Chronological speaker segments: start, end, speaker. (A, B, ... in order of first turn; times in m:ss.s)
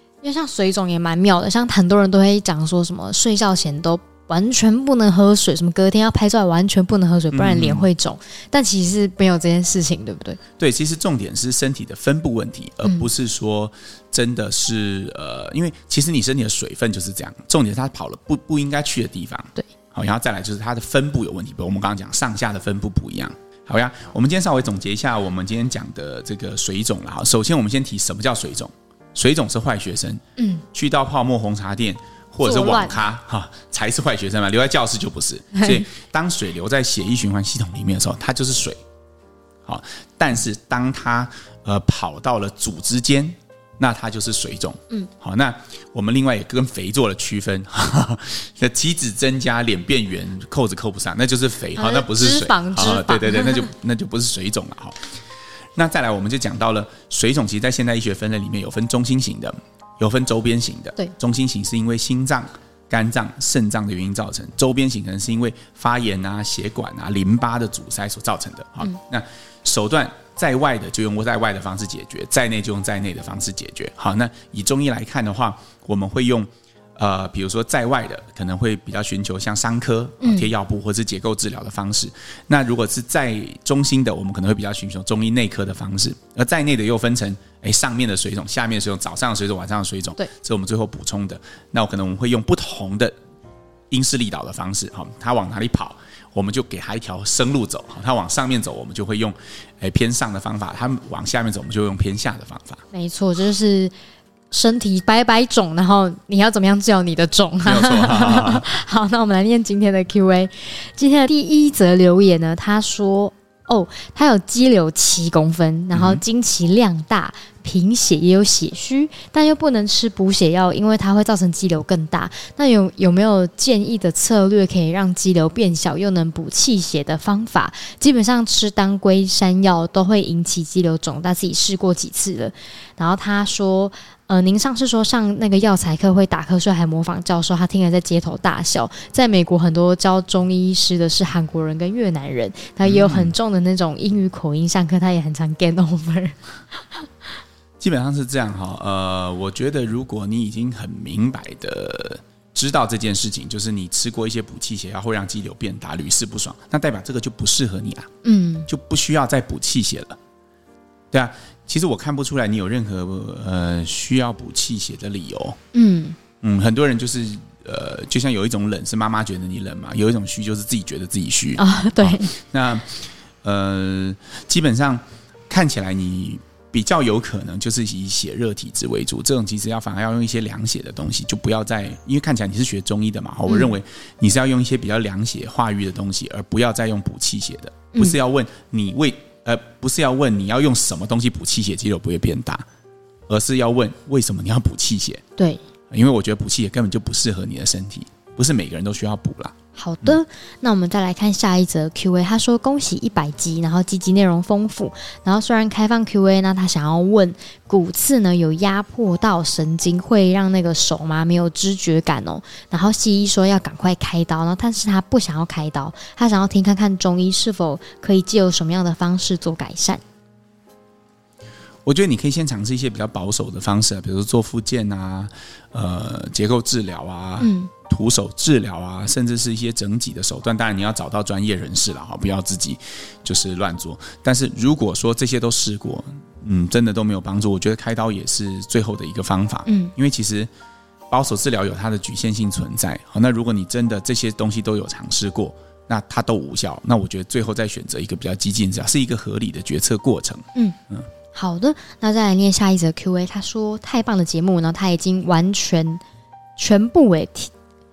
0:00.2-0:10.4 A
0:07.3-0:07.9 B
0:10.6-0:30.2 B
0:30.4-0:30.6 A
0:30.7-0:38.8 B
0:32.4-0:33.0 A
0:35.6-0:35.8 A
0:39.6-0:55.1 B
0:51.7-0:53.7 A
0:55.7-1:33.1 B
1:20.2-1:20.5 A
1:33.9-1:42.8 B
1:42.9-1:43.9 A
1:44.5-2:27.0 A
1:47.6-1:48.7 B
1:55.9-1:56.2 B
2:22.8-2:23.3 B
2:27.8-2:38.1 B
2:38.2-2:38.7 A
2:38.7-2:40.2 B
2:41.1-2:45.6 B
2:45.7-2:46.2 A
2:46.4-3:12.6 B
2:51.6-2:52.3 A
3:03.5-3:03.7 A
3:13.3-3:15.2 B
3:15.9-3:20.2 B
3:19.8-3:40.0 A
3:41.8-4:00.5 B
3:47.4-3:47.7 A
3:59.6-3:59.9 A
4:01.1-4:11.1 B
4:11.3-4:16.0 A
4:16.6-4:17.5 A